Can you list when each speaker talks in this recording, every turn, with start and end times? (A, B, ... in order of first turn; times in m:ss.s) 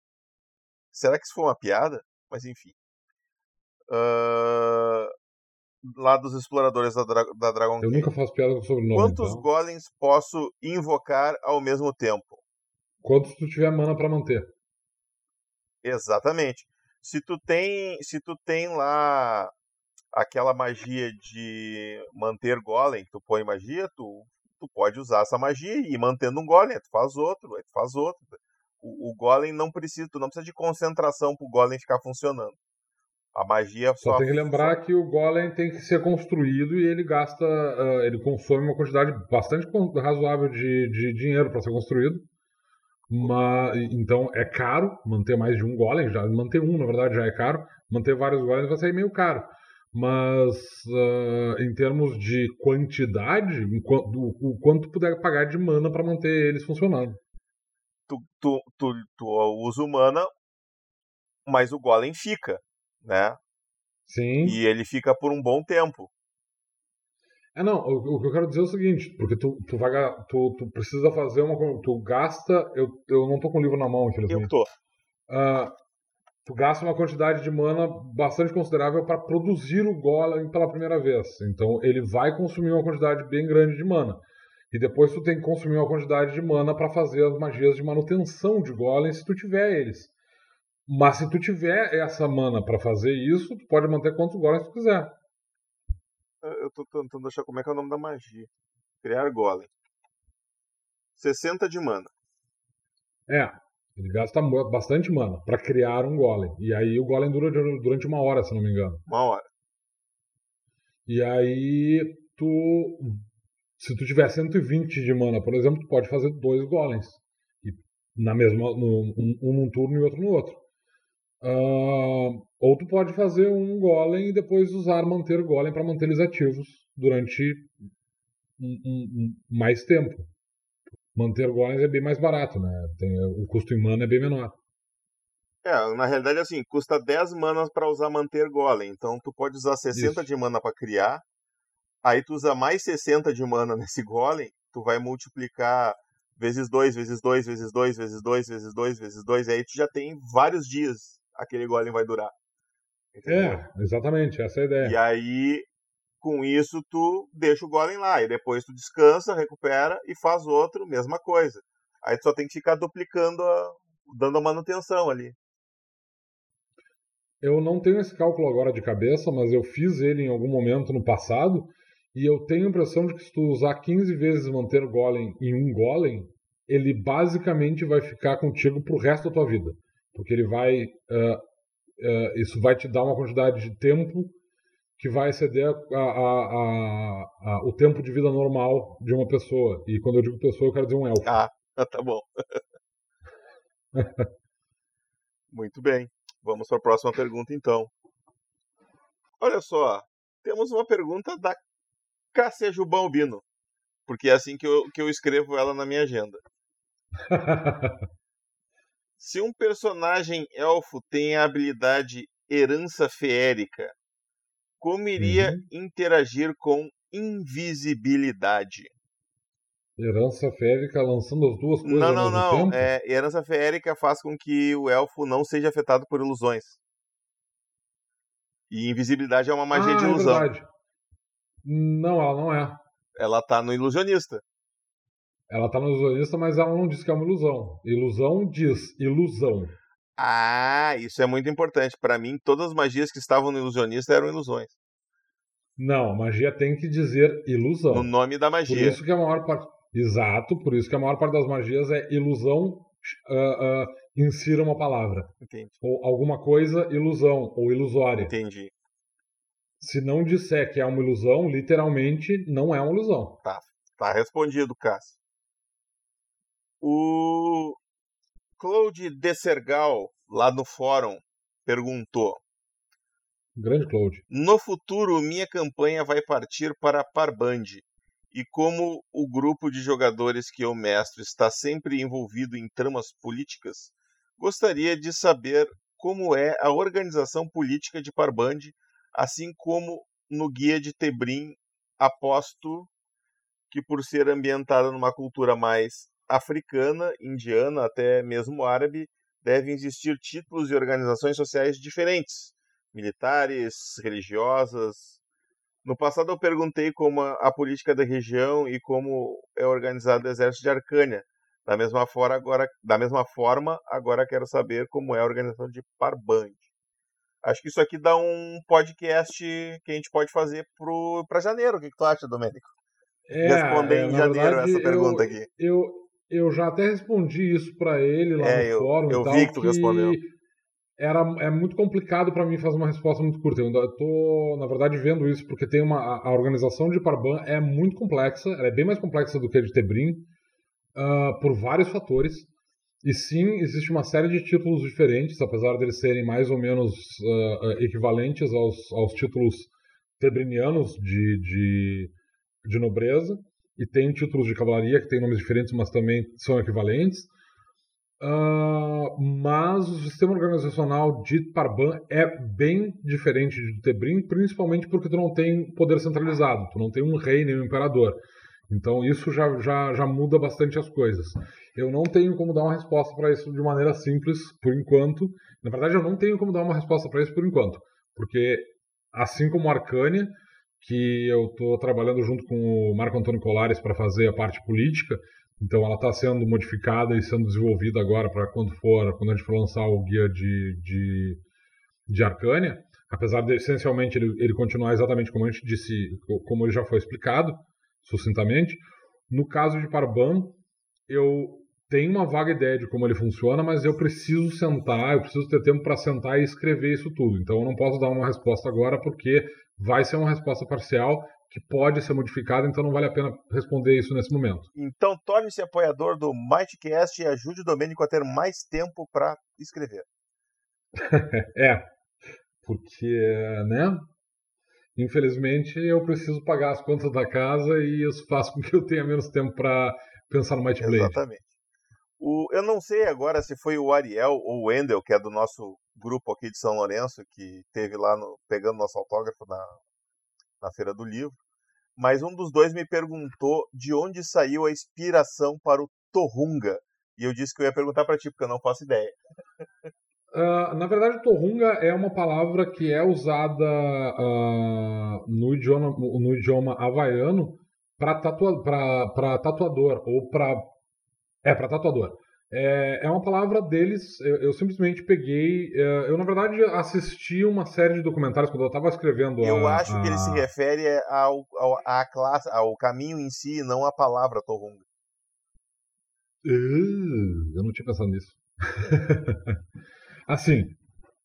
0:00.9-0:02.7 A
0:03.9-0:05.1 A
0:05.8-0:08.1 A
0:07.8-0:09.4 B
0:08.9-0:12.4 A
0:13.0-0:14.5 B
0:15.8-0:19.5 A
0:20.1-0:32.6 A
0:33.3-0:34.8 A
0:34.0-0:42.3 B
0:43.1-0:57.2 B
0:58.1-1:00.3 A
1:01.5-1:03.4 A
1:04.1-1:04.6 B
1:04.4-1:06.1 A
1:07.6-1:14.5 B
1:14.3-1:14.7 A
1:15.3-1:15.7 B
1:16.4-1:24.2 B
1:24.7-1:30.1 B
1:30.9-1:35.2 B
1:36.4-1:38.5 A
1:39.0-1:39.7 A
1:41.2-1:42.1 A
1:43.3-1:49.0 B
1:49.1-1:49.5 A
1:51.1-1:53.2 B
1:53.8-2:00.6 B
2:01.4-2:07.7 B
2:08.6-2:10.3 B
2:11.2-2:14.6 B
2:15.6-2:21.2 A
2:19.9-2:20.2 B
2:22.0-2:32.3 A
2:33.1-2:33.6 A
2:33.3-2:35.0 B
2:34.8-2:35.7 A
2:36.2-2:45.4 A
2:47.4-3:01.4 B
3:02.0-3:04.3 B
3:05.0-3:11.4 B
3:11.2-3:12.6 A
3:14.0-3:14.3 B
3:15.5-3:17.9 A
3:19.4-3:21.6 A
3:22.3-3:23.4 A
3:24.1-3:26.4 A
3:27.3-3:28.0 B
3:29.2-3:34.0 A
3:34.8-3:38.9 A
3:35.2-3:35.6 B
3:40.0-3:42.9 B
3:41.8-3:46.8 A
3:48.7-3:50.5 A
3:49.7-3:50.7 B
3:51.6-3:52.8 B
3:53.2-3:54.4 A
3:55.5-3:59.8 B
4:00.2-4:04.7 A
4:05.8-4:08.1 B
4:07.9-4:09.0 A
4:08.7-4:15.3 B
4:15.4-4:15.8 A
4:15.8-4:18.4 B
4:18.2-4:18.7 A
4:19.8-4:23.4 B
4:23.4-4:25.2 A
4:26.8-4:27.8 A
4:28.6-4:32.4 A
4:33.6-4:34.2 B
4:34.3-4:52.9 A
4:53.7-5:05.2 A
5:05.8-5:16.6 A
5:17.4-5:22.7 A
5:23.3-5:30.3 B
5:23.4-5:25.5 A
5:28.4-5:30.2 A
5:31.0-5:40.3 B
5:41.0-5:42.5 B
5:43.0-5:52.1 B
5:52.6-5:57.3 B
5:58.2-6:08.2 B
6:08.7-6:31.4 B
6:32.1-6:38.8 B
6:39.3-6:40.6 B
6:41.1-6:54.7 B
6:54.8-7:00.1 A
7:01.0-7:01.8 B
7:02.6-7:04.1 B
7:05.0-7:11.2 B
7:10.8-7:11.4 A
7:12.2-7:19.8 A
7:20.6-7:21.4 A
7:22.0-7:29.2 A
7:30.3-7:40.7 B
7:41.4-7:50.5 B
7:49.4-7:54.8 A
7:56.4-7:59.6 B
8:00.3-8:00.8 B